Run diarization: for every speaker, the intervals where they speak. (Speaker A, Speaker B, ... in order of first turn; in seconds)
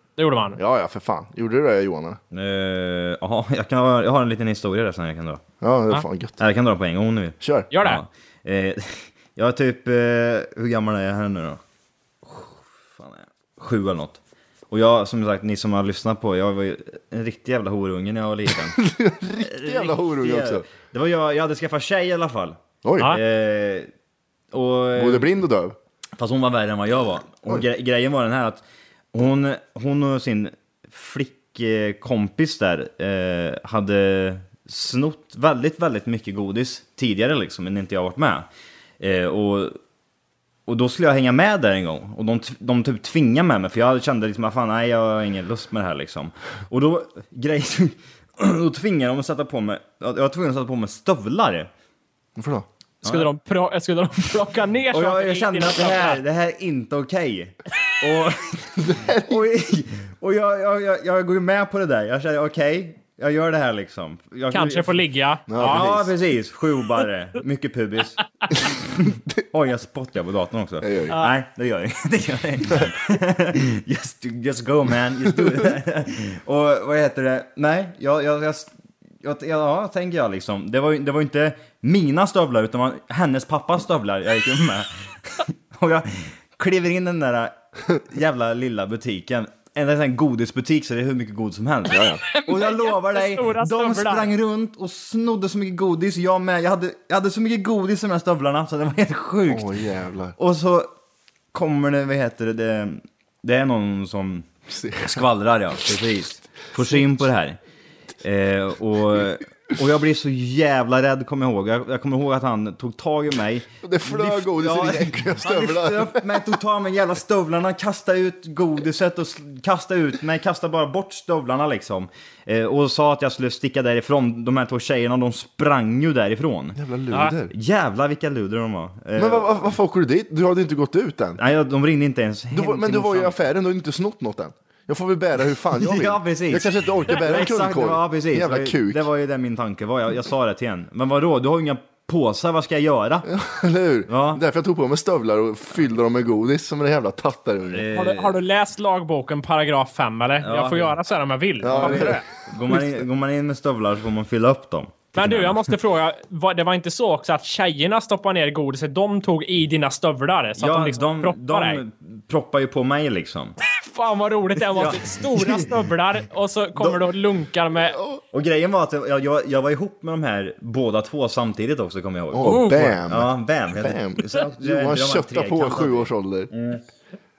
Speaker A: 0.2-0.6, 7.7-8.0, 53.0-56.2, 64.5-65.8, 92.3-94.3, 147.9-152.2, 155.2-161.8, 163.6-168.0, 172.4-172.9
Speaker B: 0.6-2.2, 5.6-6.4, 7.4-7.7, 18.8-20.6, 22.8-23.1, 24.9-25.8, 52.4-52.7, 58.8-59.5, 65.5-66.1, 70.8-71.2, 91.9-92.2, 99.5-100.3, 104.7-105.2, 106.8-107.0, 113.8-116.3, 126.8-127.5, 129.2-131.4, 132.5-139.0, 143.2-147.8, 151.6-153.0, 167.7-168.2, 172.3-176.5
Speaker C: 2.3-5.4, 6.4-11.6, 12.2-14.2, 14.7-18.8, 19.4-23.9, 24.5-25.3, 26.2-28.6, 29.1-38.5, 39.0-39.8, 40.7-51.7, 53.0-53.3, 54.9-65.0, 65.6-99.7, 100.4-100.9, 101.5-104.5, 105.0-107.6, 108.2-129.6, 131.4-133.4, 135.8-143.3, 144.1-144.4, 147.7-148.4, 150.4-150.9, 151.8-155.7, 160.6-163.6, 164.7-165.7, 168.3-176.8